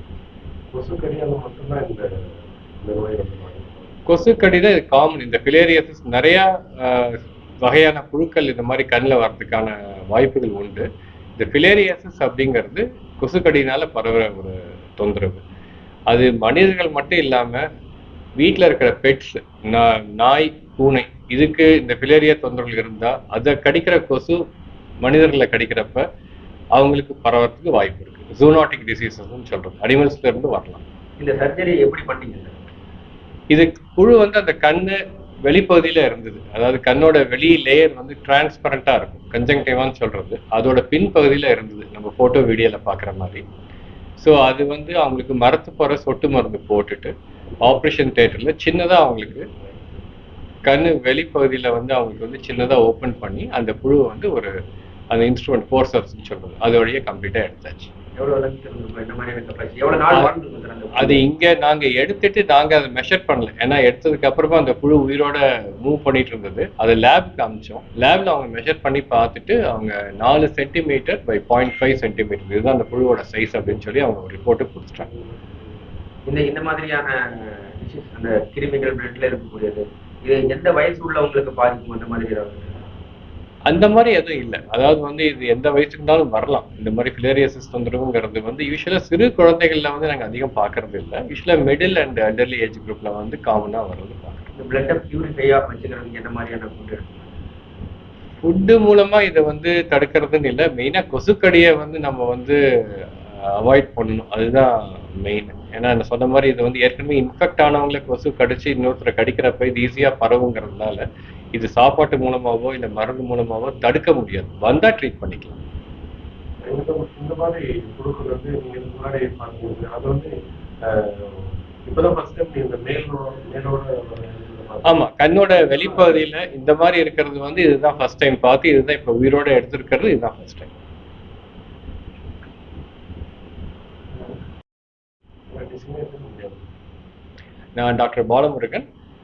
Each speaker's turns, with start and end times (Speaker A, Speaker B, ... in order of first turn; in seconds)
Speaker A: 0.7-3.8, 116.6-124.9, 135.5-136.6
Speaker B: 4.1-10.8, 11.4-15.4, 16.1-17.6, 18.4-24.4, 25.0-26.0, 26.7-30.8, 33.5-43.4, 44.2-49.5, 50.6-54.5, 55.1-57.9, 60.9-75.1, 83.7-94.5, 98.4-111.0, 111.5-115.6, 124.8-130.7, 137.8-138.8
Speaker C: 31.2-32.6, 58.2-61.2, 76.3-82.8, 94.5-97.2